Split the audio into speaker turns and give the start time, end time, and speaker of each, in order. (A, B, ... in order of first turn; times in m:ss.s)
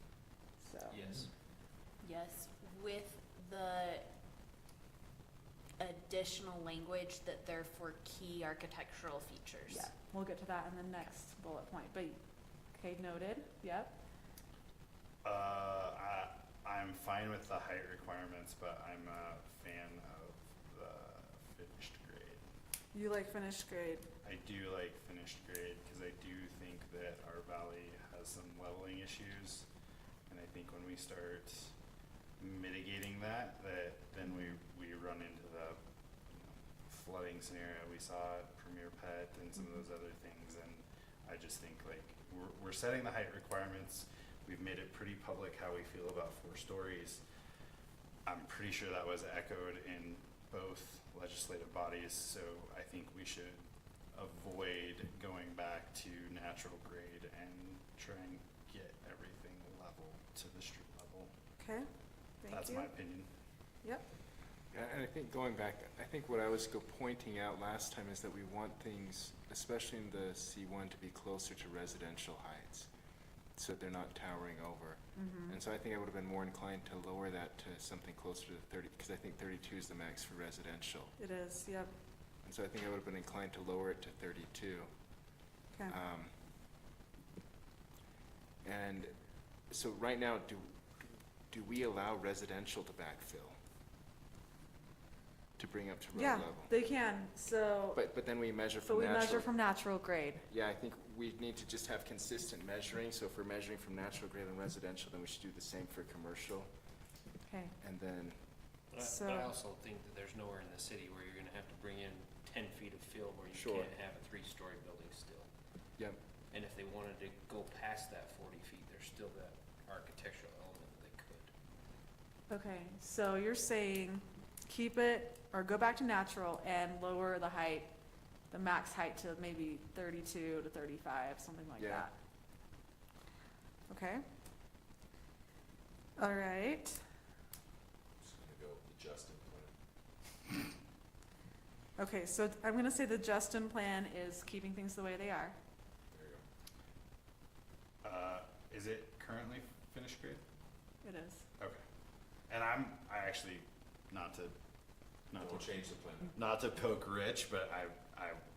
0:00.6-0:01.0 A
0:00.9-0:01.3 B
0:02.0-0:04.1 C
0:05.8-0:09.9 C
0:09.7-0:12.2 A
0:12.7-0:14.0 A
0:15.2-0:22.4 D
0:22.9-0:24.1 A
0:24.2-0:29.7 D
0:30.3-0:31.7 D
0:32.4-0:35.8 D
0:36.3-0:47.2 D
0:48.2-0:53.6 D
0:54.1-1:01.3 D
1:01.6-1:01.9 A
1:02.4-1:02.9 A
1:02.5-1:03.3 D
1:04.7-1:12.9 E
1:13.6-1:21.2 E
1:15.2-1:15.6 A
1:21.2-1:21.9 A
1:22.4-1:24.9 E
1:25.9-1:26.4 E
1:28.6-1:29.1 E
1:29.7-1:33.6 E
1:35.6-1:36.7 E
1:36.1-1:38.0 A
1:37.9-1:39.5 E
1:38.8-1:40.4 A
1:40.5-1:46.7 E
1:47.4-1:47.7 A
1:47.8-1:48.5 E
1:48.9-1:55.5 B
1:49.0-1:49.5 A
1:53.5-1:53.9 E
1:56.5-2:01.5 B
2:02.5-2:07.9 A
2:08.5-2:12.1 A
2:11.8-2:12.1 E
2:13.9-2:14.2 A
2:16.2-2:17.0 A
2:18.2-2:19.7 F
2:22.0-2:25.6 A
2:26.1-2:26.4 F
2:28.0-2:30.4 D
2:31.0-2:31.4 A
2:32.5-2:34.5 D
2:35.3-2:35.8 D
2:35.4-2:36.4 F
2:36.3-2:38.4 D